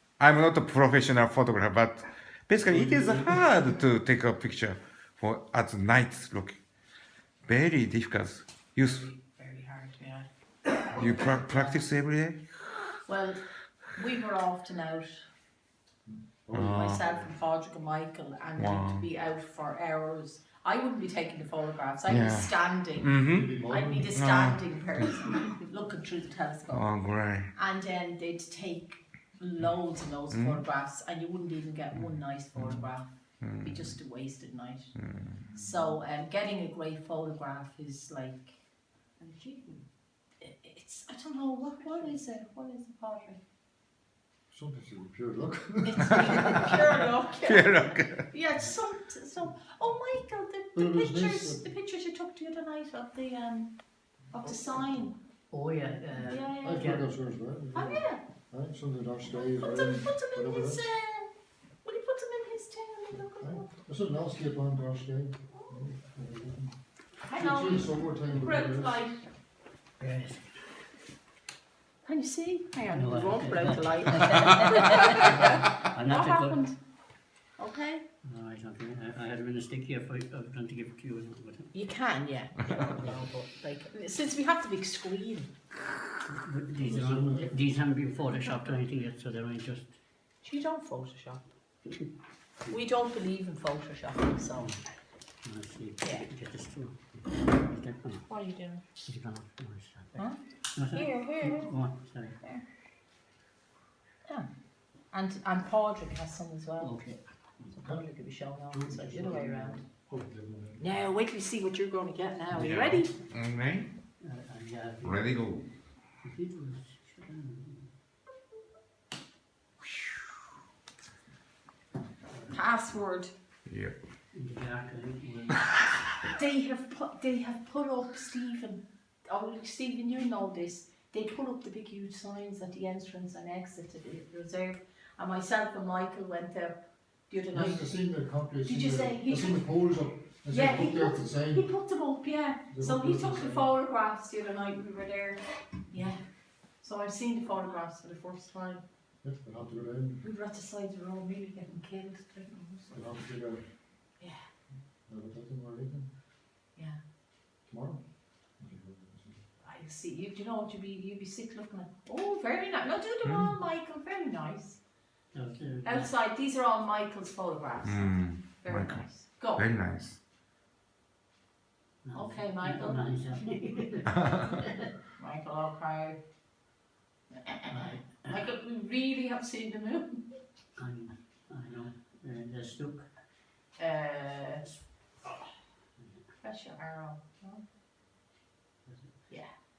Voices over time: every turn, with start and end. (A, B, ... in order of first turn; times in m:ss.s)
0:00.2-0:06.6 A
0:02.7-0:03.5 B
0:07.5-0:09.1 A
0:08.8-0:11.9 C
0:10.9-0:12.4 A
0:13.0-0:13.4 C
0:13.9-0:15.2 C
0:16.1-0:17.3 D
0:16.5-0:17.0 A
0:16.6-0:23.2 C
0:18.6-0:19.1 A
0:22.1-0:23.5 A
0:23.2-0:24.2 D
0:23.7-0:26.9 C
0:24.1-0:25.1 A
0:26.7-0:27.5 A
0:27.5-0:33.1 C
0:30.3-0:30.6 A
0:32.0-0:32.9 A
0:33.4-0:34.0 A
0:33.6-0:35.0 C
0:35.0-0:35.5 A
0:35.5-0:36.0 D
0:35.5-0:38.6 C
0:39.2-0:39.8 B
0:40.4-0:43.4 C
0:44.5-0:46.9 D
0:45.8-0:47.8 C
0:46.2-0:46.6 A
0:47.4-0:48.3 A
0:47.7-0:48.0 B
0:48.3-0:53.7 C
0:50.8-0:51.7 D
0:54.3-0:55.2 C
0:55.5-0:57.1 B
0:56.2-0:57.0 C
0:56.6-1:00.8 D
0:57.7-0:58.2 C
0:59.3-1:01.3 C
1:01.8-1:03.7 C
1:03.4-1:06.8 D
1:05.6-1:05.8 C
1:07.2-1:09.2 C
1:07.4-1:09.0 D
1:10.0-1:10.6 B
1:12.0-1:16.8 C
1:12.9-1:16.6 B
1:17.6-1:18.0 C
1:18.2-1:21.7 B
1:21.7-1:25.5 C
1:23.0-1:23.3 B
1:26.3-1:29.9 B
1:26.8-1:27.5 D
1:30.4-1:31.4 C
1:32.7-1:34.7 C
1:35.4-1:38.3 B
1:36.0-1:36.3 C
1:38.3-1:38.8 C
1:39.0-1:42.4 B
1:40.9-1:41.7 C
1:45.1-1:47.0 C
1:46.8-1:47.7 B
1:47.8-1:49.8 C
1:47.8-1:48.1 D
1:48.7-1:51.0 D
1:50.8-1:53.1 C
1:52.5-1:53.9 A
1:54.2-1:55.4 B
1:55.0-1:55.7 A
1:56.2-1:57.9 B
2:02.5-2:03.3 C
2:03.7-2:04.0 A
2:04.3-2:05.7 B
2:06.3-2:18.0 C
2:17.5-2:21.7 D
2:18.6-2:19.6 C
2:20.5-2:26.2 C
2:22.7-2:23.7 D
2:26.8-2:28.8 C
2:29.2-2:30.2 D
2:30.2-2:33.1 C
2:32.9-2:33.7 D
2:35.1-2:36.1 D
2:37.7-2:38.0 D
2:38.6-2:39.4 D
2:39.6-2:44.8 C
2:43.2-2:43.6 A
2:45.3-2:46.1 B
2:45.8-2:49.7 C
2:47.8-2:50.2 A
2:52.0-2:54.9 B
2:52.1-2:53.0 C
2:55.2-2:56.2 C
2:57.4-3:00.2 C
2:57.7-2:58.4 B
3:00.8-3:03.1 B
3:03.8-3:04.6 C
3:06.4-3:07.6 C
3:08.9-3:09.1 B